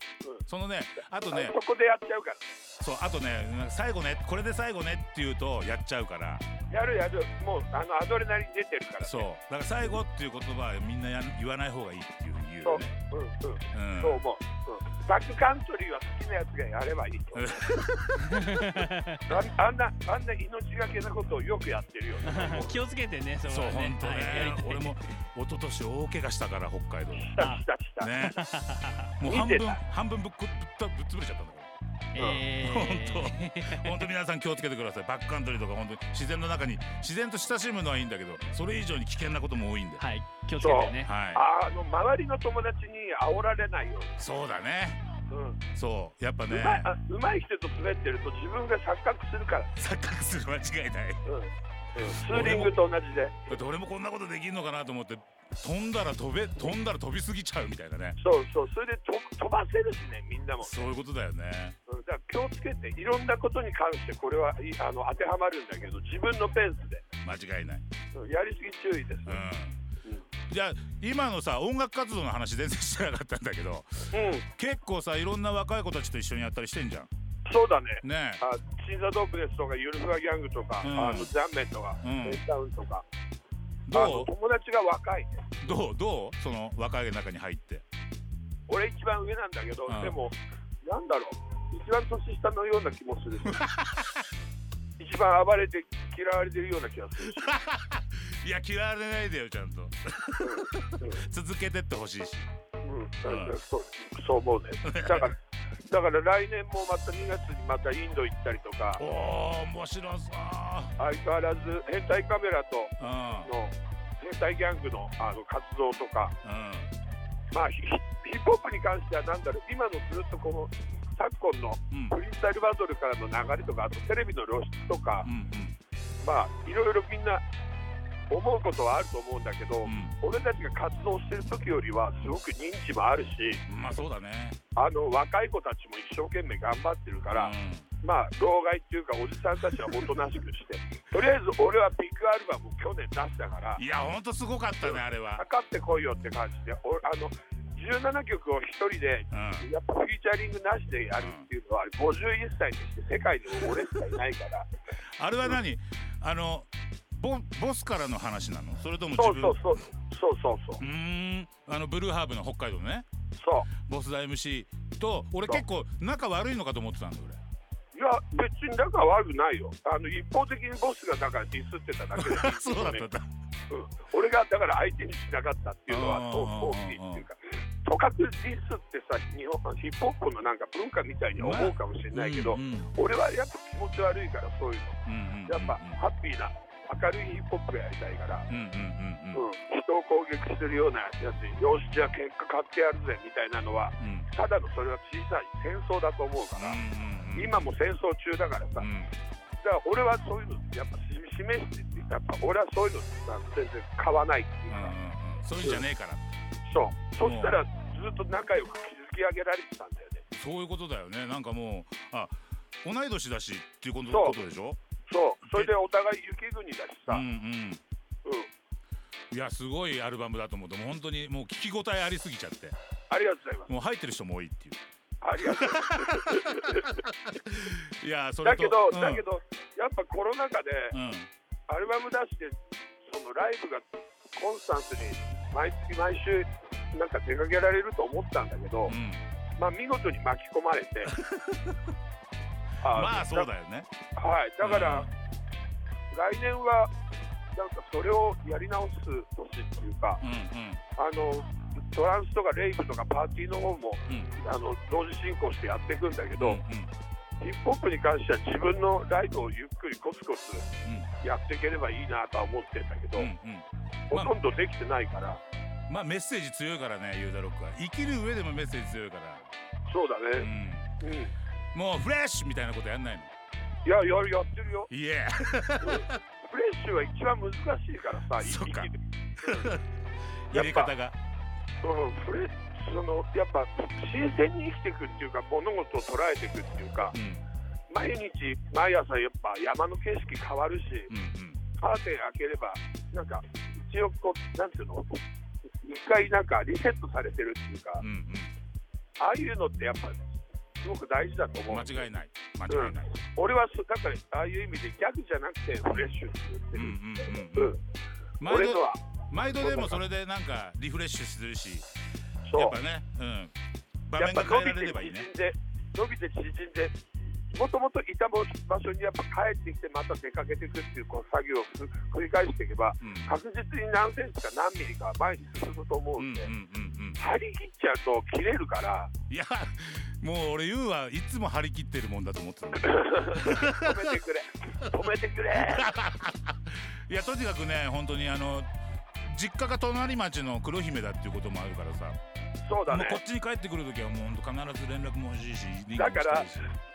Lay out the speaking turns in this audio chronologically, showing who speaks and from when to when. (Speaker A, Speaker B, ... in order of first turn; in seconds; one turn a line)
Speaker A: 0.5-1.6
Speaker B: 1.3-2.4
Speaker A: 2.8-6.5
Speaker B: 6.7-9.3
Speaker A: 9.0-12.9
Speaker B: 12.6-17.8
Speaker A: 13.7-14.2
Speaker A: 17.4-18.4
Speaker C: 18.2-19.2
Speaker B: 19.3-22.8
Speaker C: 22.2-24.9
Speaker A: 23.5-27.4
Speaker B: 27.2-28.2
Speaker A: 28.0-28.4
Speaker C: 28.2-29.1
Speaker A: 29.2-31.7
Speaker B: 29.2-29.8
Speaker C: 32.1-34.1
Speaker B: 32.2-32.4
Speaker A: 32.6-40.0
Speaker C: 40.0-41.1
Speaker B: 40.6-44.1
Speaker A: 41.0-41.5
Speaker A: 44.2-45.0
Speaker B: 45.3-45.6
Speaker A: 45.8-46.9
Speaker B: 46.5-49.7
Speaker A: 49.8-51.2
Speaker B: 51.2-53.6
Speaker A: 52.0-52.8
Speaker A: 53.5-58.2
Speaker B: 58.2-60.8
Speaker A: 60.6-61.8
Speaker B: 61.9-67.0
Speaker A: 67.2-67.8
Speaker B: 68.1-69.4
Speaker A: 69.3-69.8
Speaker A: 70.5-77.1
Speaker B: 74.1-74.5
Speaker B: 77.5-83.0
Speaker A: 78.0-78.4
Speaker A: 80.8-81.3
Speaker A: 82.0-82.4
Speaker A: 83.9-84.3
Speaker B: 83.9-85.5
Speaker A: 85.6-87.8
Speaker B: 88.7-93.7
Speaker A: 89.9-90.2
Speaker A: 93.6-94.2
Speaker B: 95.0-97.5
Speaker A: 97.4-102.5
Speaker B: 100.4-101.2
Speaker B: 102.8-105.4
Speaker A: 103.2-103.6
Speaker A: 104.8-105.3
Speaker B: 105.9-109.0
Speaker A: 109.0-110.9
Speaker B: 111.0-116.3
Speaker A: 113.0-113.5
Speaker A: 116.4-116.9
Speaker B: 117.5-125.3
Speaker A: 125.2-125.8
Speaker B: 126.2-127.4
Speaker B: 128.3-133.6
Speaker A: 129.8-130.2
Speaker A: 133.7-134.6
Speaker B: 134.8-143.8
Speaker A: 137.3-137.9
Speaker A: 143.8-145.4
Speaker B: 144.8-154.7
Speaker A: 149.3-149.7
Speaker A: 151.2-151.5
Speaker A: 155.2-159.7
Speaker B: 159.1-160.8
Speaker A: 160.8-163.1
Speaker B: 163.4-163.7
Speaker A: 163.8-167.4
Speaker B: 167.9-173.1
Speaker A: 172.2-173.3
Speaker B: 173.7-188.5
Speaker A: 175.9-177.2
Speaker A: 181.4-182.9
Speaker A: 185.1-186.0
Speaker A: 188.5-189.4
Speaker B: 189.3-196.8
Speaker A: 194.0-194.3
Speaker A: 196.6-197.8
Speaker B: 197.3-198.9
Speaker A: 198.8-199.1
Speaker B: 199.6-205.0
Speaker A: 204.7-206.2
Speaker B: 206.7-210.2
Speaker A: 207.2-207.6
Speaker A: 210.3-214.8
Speaker B: 214.1-214.4
Speaker B: 215.1-217.2
Speaker A: 215.4-215.7
Speaker A: 217.1-217.8
Speaker A: 219.3-222.8
Speaker B: 223.1-223.7
Speaker A: 223.7-224.8
Speaker B: 225.2-226.9
Speaker A: 225.4-229.2
Speaker B: 228.4-231.0
Speaker A: 230.9-231.3
Speaker B: 231.7-239.0
Speaker A: 238.9-239.2
Speaker B: 239.6-241.2
Speaker A: 241.1-241.8
Speaker B: 242.8-243.5
Speaker A: 242.9-243.9
Speaker B: 244.2-245.1
Speaker A: 244.6-245.1
Speaker B: 246.1-246.9
Speaker B: 247.5-250.2
Speaker A: 250.2-250.8
Speaker B: 251.0-256.6
Speaker A: 256.4-256.9
Speaker B: 257.4-263.3
Speaker A: 263.1-264.4
Speaker B: 264.1-265.4
Speaker A: 265.9-269.5
Speaker B: 269.9-270.5
Speaker A: 270.4-270.9
Speaker B: 271.0-271.3
Speaker A: 271.7-273.3
Speaker B: 273.9-274.9
Speaker A: 274.9-276.2
Speaker B: 275.8-279.7
Speaker A: 278.4-278.9
Speaker A: 279.4-279.8
Speaker A: 280.5-281.1
Speaker B: 280.5-280.9
Speaker B: 281.8-287.2
Speaker A: 287.1-287.5
Speaker B: 287.9-291.1
Speaker A: 291.1-291.6
Speaker B: 291.8-295.2
Speaker B: 295.8-298.0
Speaker A: 298.0-298.5
Speaker B: 299.2-300.3
Speaker B: 300.8-302.1
Speaker A: 301.7-303.1
Speaker B: 302.7-307.8
Speaker A: 305.9-306.2
Speaker A: 306.7-307.8
Speaker A: 308.4-311.9
Speaker B: 308.4-309.0
Speaker B: 309.5-310.0
Speaker B: 312.5-312.8
Speaker A: 312.5-313.5
Speaker A: 314.1-315.3
Speaker B: 314.2-316.9
Speaker B: 317.5-326.5
Speaker A: 323.0-323.3
Speaker A: 326.2-327.2
Speaker B: 327.2-329.1
Speaker A: 329.3-334.0
Speaker B: 332.9-335.9
Speaker A: 335.6-338.7
Speaker A: 339.2-342.2
Speaker B: 342.6-343.2
Speaker A: 342.9-346.8
Speaker B: 345.9-346.5